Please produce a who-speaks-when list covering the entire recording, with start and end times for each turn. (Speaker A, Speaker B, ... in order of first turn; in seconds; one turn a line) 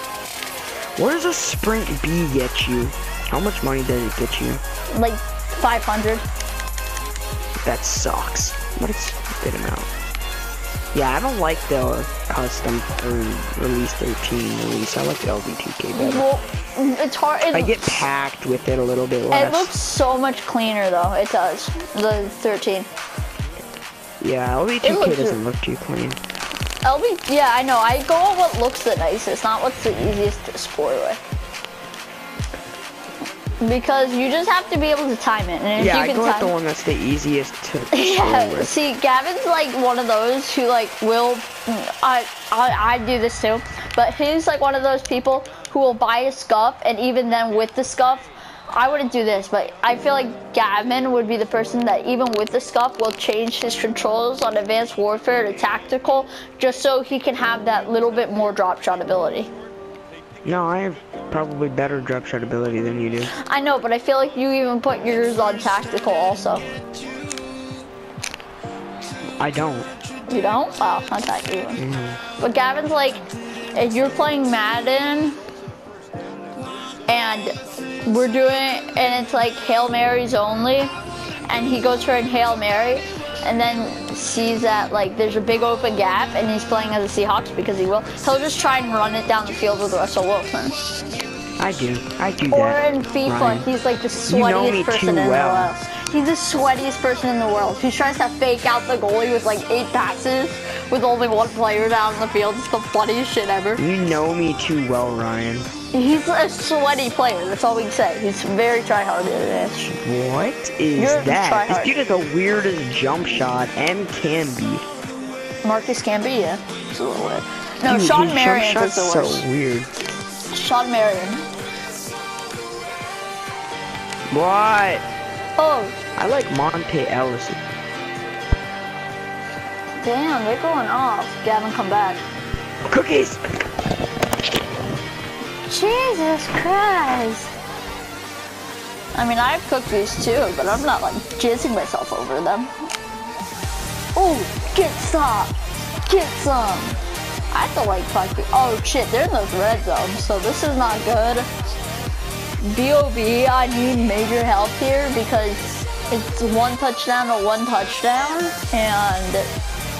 Speaker A: 0.9-4.6
Speaker B: 4.9-6.2
Speaker A: 7.6-9.9
Speaker A: 10.9-16.3
Speaker B: 15.9-18.0
Speaker A: 17.5-19.7
Speaker B: 19.3-22.9
Speaker A: 24.2-26.2
Speaker B: 24.8-25.4
Speaker B: 26.8-31.2
Speaker B: 33.6-36.5
Speaker A: 35.8-38.8
Speaker B: 37.9-59.5
Speaker A: 60.4-63.3
Speaker B: 63.3-66.6
Speaker A: 69.4-69.9
Speaker B: 70.3-71.8
Speaker A: 71.8-72.2
Speaker B: 72.4-75.4
Speaker B: 77.1-80.9
Speaker B: 81.5-90.9
Speaker A: 91.6-93.7
Speaker B: 92.5-103.8
Speaker A: 94.3-95.7
Speaker A: 103.8-105.7
Speaker B: 105.9-109.9
Speaker A: 109.9-114.8
Speaker B: 110.9-111.9
Speaker B: 115.6-119.4
Speaker A: 117.8-119.9
Speaker B: 120.5-121.5
Speaker A: 124.3-125.0
Speaker B: 125.6-126.0
Speaker A: 126.2-127.6
Speaker B: 130.0-132.2
Speaker A: 132.9-133.4
Speaker B: 135.7-137.5
Speaker B: 139.1-142.7
Speaker B: 144.1-147.0
Speaker B: 147.5-151.5
Speaker B: 152.6-159.5